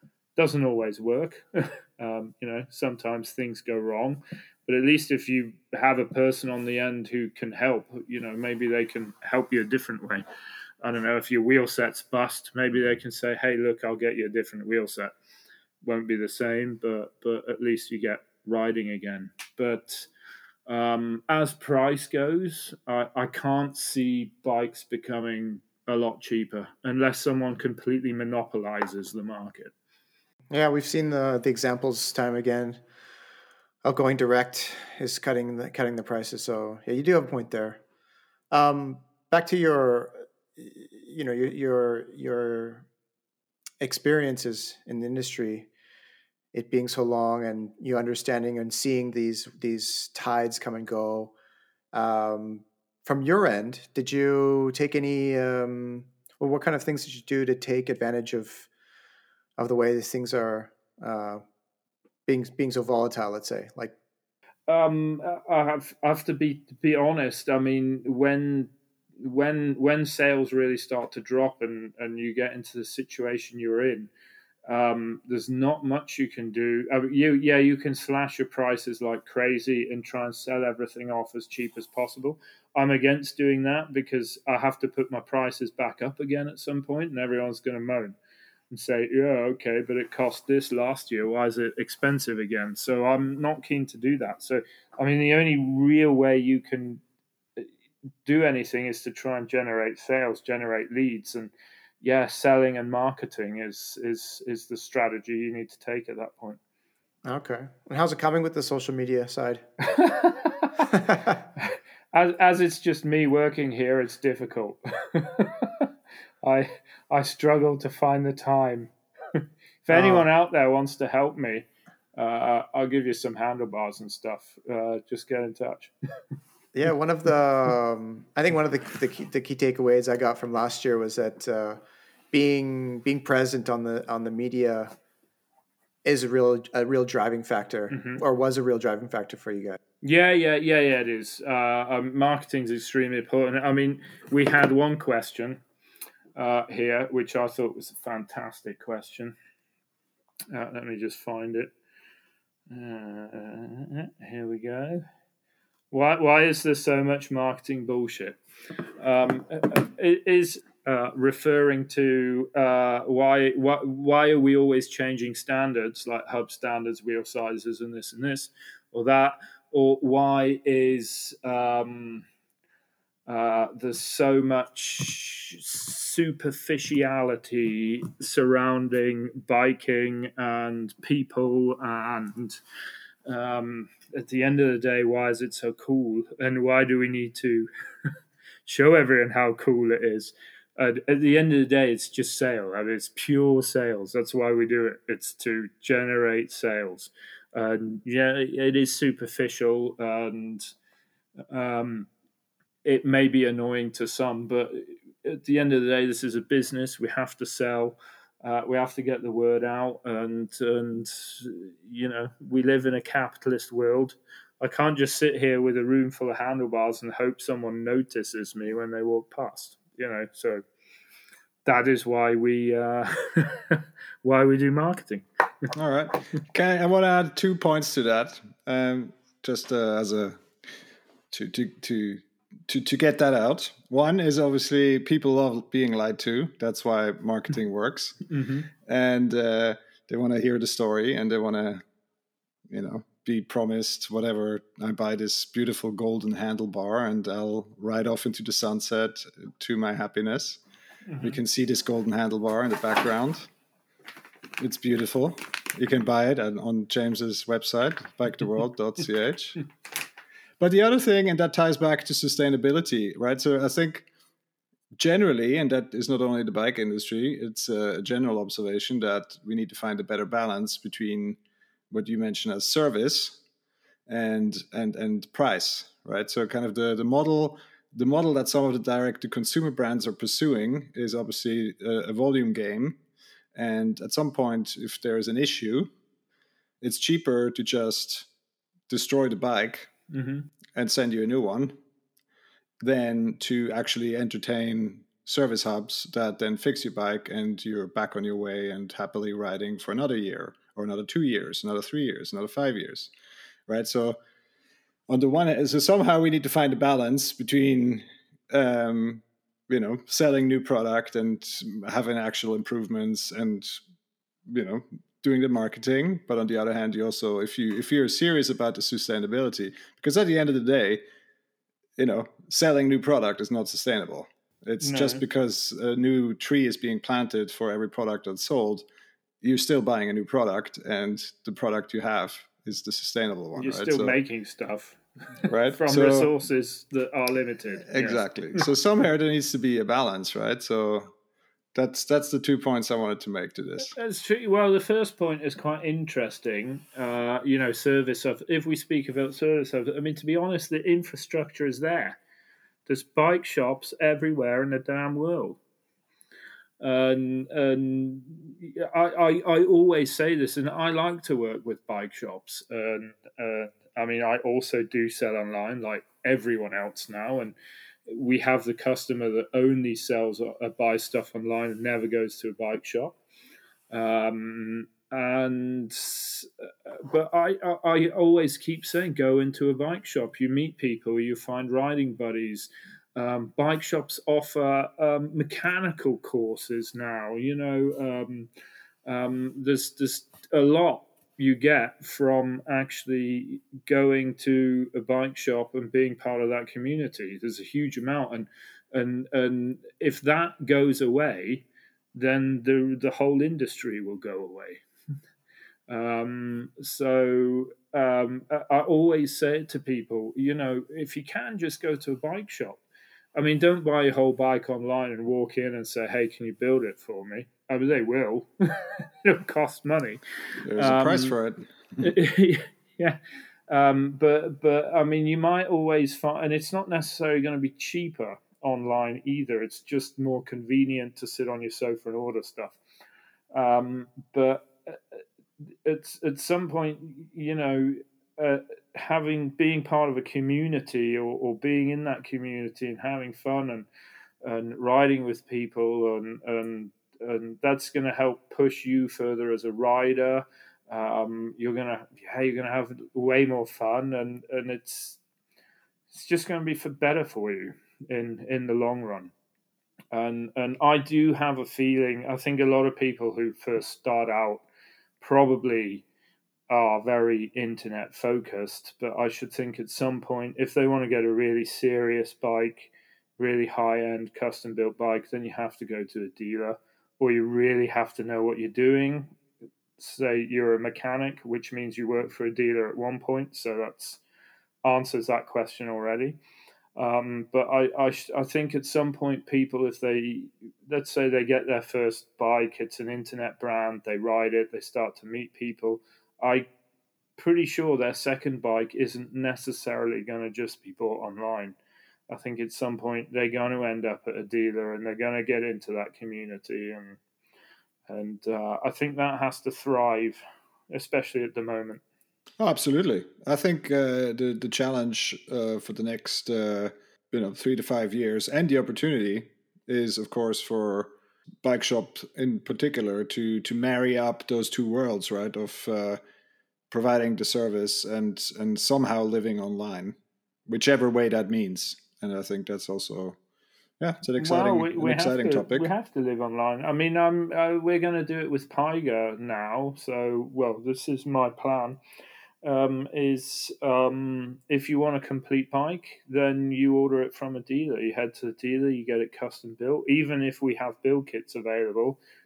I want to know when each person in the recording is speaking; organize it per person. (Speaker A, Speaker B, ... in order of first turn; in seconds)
Speaker A: 0.4-10.2, 10.8-15.1, 15.8-20.1, 20.7-29.7, 64.7-74.1, 74.7-88.2, 88.7-97.0, 98.2-106.6, 109.9-110.7, 111.6-115.9, 116.4-125.9, 137.9-138.2, 140.0-145.6, 146.4-149.3, 150.5-151.7, 152.7-155.0, 155.9-158.4, 159.0-172.2, 173.3-182.6, 183.3-187.7, 188.7-200.7, 201.5-202.1, 202.8-220.6, 221.7-225.2, 238.3-238.7, 251.1-251.4, 290.1-290.5, 324.8-325.2, 333.6-338.6, 343.8-352.2, 352.9-355.6, 356.8-367.6, 368.1-373.2, 373.9-388.5, 389.1-404.8, 405.9-412.8, 413.4-420.2, 420.8-421.4, 422.0-423.2, 423.7-432.8, 433.5-435.2, 435.9-443.9, 444.4-455.2, 456.1-459.3, 460.1-464.6, 465.2-466.1, 466.7-479.4, 480.0-484.2, 484.9-486.4, 487.0-496.7, 497.4-501.8, 502.3-507.2, 508.1-510.4, 510.9-512.0, 534.4-542.0, 542.6-552.2
Speaker B: 30.5-32.8, 33.8-37.8, 38.5-42.9, 43.8-45.7, 46.5-51.3, 51.9-58.7, 59.6-61.4, 62.3-64.0, 107.2-109.6, 110.9-111.4, 119.9-120.3, 126.7-131.8, 132.3-134.9, 136.1-139.8
Speaker C: 225.7-230.4, 231.3-238.2, 238.8-241.8, 242.7-250.6, 251.2-253.5, 254.6-259.7, 260.6-264.1, 265.0-271.4, 271.9-273.4, 274.1-283.0, 283.6-285.9, 286.8-288.3, 288.9-289.9, 290.8-291.8, 292.8-303.1, 303.7-304.2, 305.1-313.8, 314.5-321.0, 322.0-328.9, 329.4-334.2, 335.5-336.3, 337.9-341.1, 341.8-344.0, 420.6-421.7, 512.6-526.2, 526.9-530.2, 530.7-533.4, 534.0-535.9